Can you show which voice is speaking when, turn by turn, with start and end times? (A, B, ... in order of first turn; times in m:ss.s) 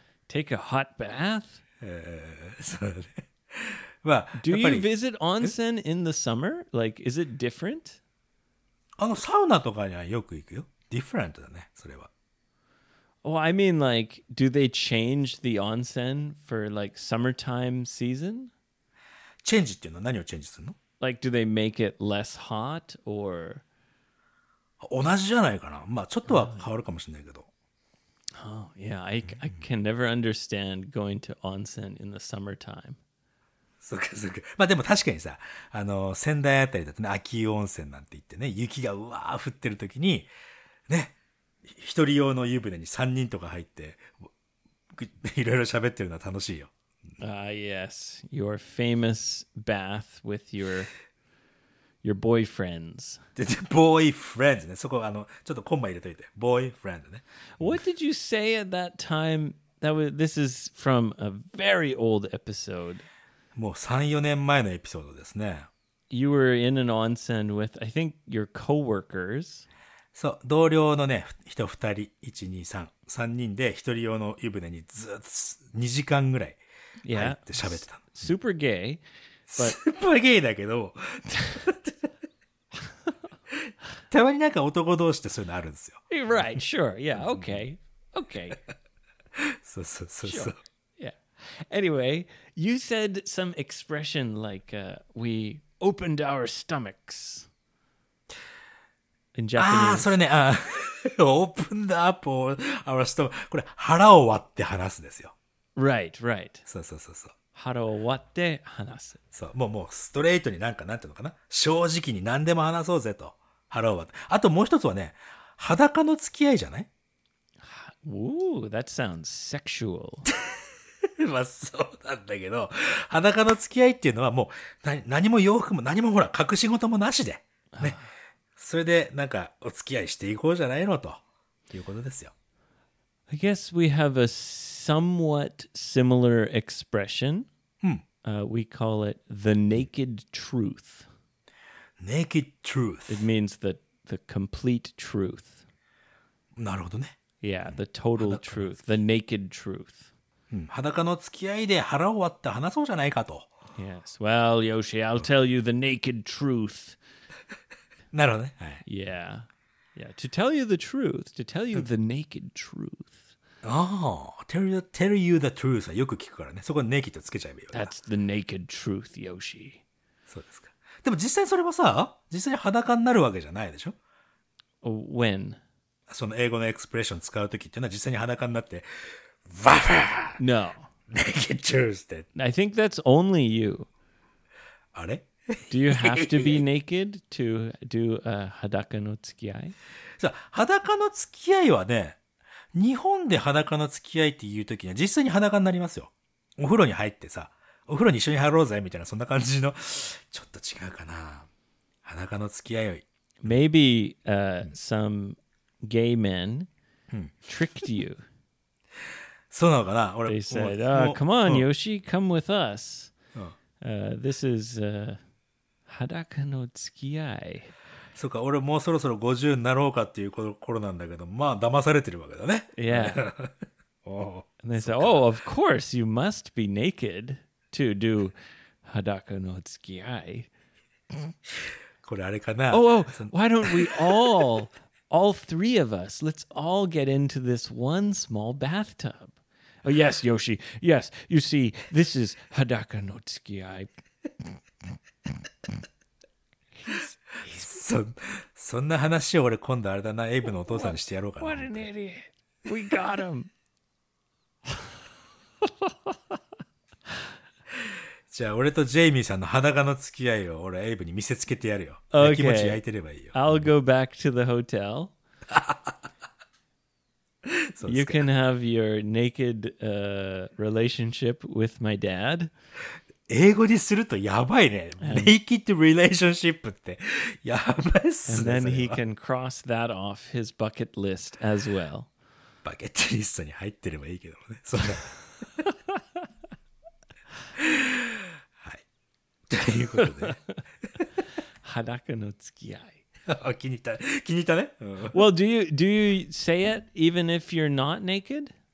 0:00.3-0:01.6 A
0:01.8-0:04.9 B
0:04.3-0:08.0 A
0:09.0-0:12.1 B
0:13.2-0:18.5 A
0:19.4-0:20.8 B
0:21.0-0:23.6 A
0:24.8-0:27.5 B
0:26.3-0:26.6 A
0:28.4-0:33.0 A
0:29.3-0:29.6 B
0:33.8-0:40.3 B
0:40.9-0:41.1 B
0:41.6-0:44.2 B
0:44.9-0:46.7 B
0:47.2-0:50.9 A
0:52.0-0:53.2 A
0:53.4-0:57.8 B
0:57.6-1:03.0 A
1:03.5-1:05.7 B
1:06.1-1:09.6 A
1:10.1-1:16.6 B
1:17.0-1:19.0 A
1:17.1-1:18.3 B
1:19.5-1:22.0 B
1:23.5-1:26.0 B
1:26.1-1:28.6 A
1:27.2-1:27.6 B
1:29.4-1:30.6 B
1:30.2-1:37.5 A
1:39.3-1:40.1 A
1:39.6-1:45.3 B
1:45.8-1:46.6 A
1:46.7-1:47.3 B
1:47.5-1:49.2 A
1:49.3-1:56.9 B
1:57.6-2:00.3 A
2:00.3-2:08.0 B
2:07.7-2:08.1 A
2:08.6-2:12.3 B
2:13.3-2:17.5 A
2:18.2-2:21.1 A
2:22.0-2:23.2 B
2:23.1-2:25.6 A
2:26.6-2:27.2 B
2:27.4-2:30.1 A
2:27.7-2:28.7 B
2:30.5-2:33.5 B
2:33.8-2:37.0 A
2:38.1-2:38.8 B
2:38.8-2:43.3 A
2:43.6-2:47.9 B
2:47.7-2:49.8 A
2:50.3-2:54.0 B
2:54.8-2:55.6 A
2:56.1-3:00.4 B
3:00.4-3:00.9 A
3:01.1-3:02.3 B
3:02.3-3:03.9 A
3:04.9-3:06.6 B
3:05.7-3:09.7 A
3:10.2-3:12.2 B
3:12.7-3:21.5 B
3:22.0-3:23.5 B
3:23.4-3:26.7 A
3:27.5-3:28.2 A
3:29.5-3:31.7 B
3:30.2-3:33.1 A
3:33.8-3:35.2 A
3:35.9-3:37.7 A
3:38.1-3:45.2 B
3:42.7-3:43.2 A
3:44.6-3:50.5 A
3:51.6-3:54.2 B
3:52.7-4:03.9 A
4:06.7-4:07.8 A
4:07.5-4:11.8 B
4:10.7-4:13.5 A
4:15.6-4:16.1 A
4:17.9-4:23.6 B
4:22.1-4:22.8 A
4:23.3-4:25.1 A
4:25.5-4:26.0 B
4:27.4-4:28.2 B
4:27.8-4:32.5 A
4:33.3-4:39.0 B
4:35.0-4:35.3 A
4:38.2-4:42.1 A
4:42.6-4:45.2 B
4:47.5-4:48.8 B
4:49.5-4:50.4 B
4:50.0-4:50.6 A
4:51.6-4:53.0 A
4:53.3-4:55.2 B
4:55.1-4:58.5 A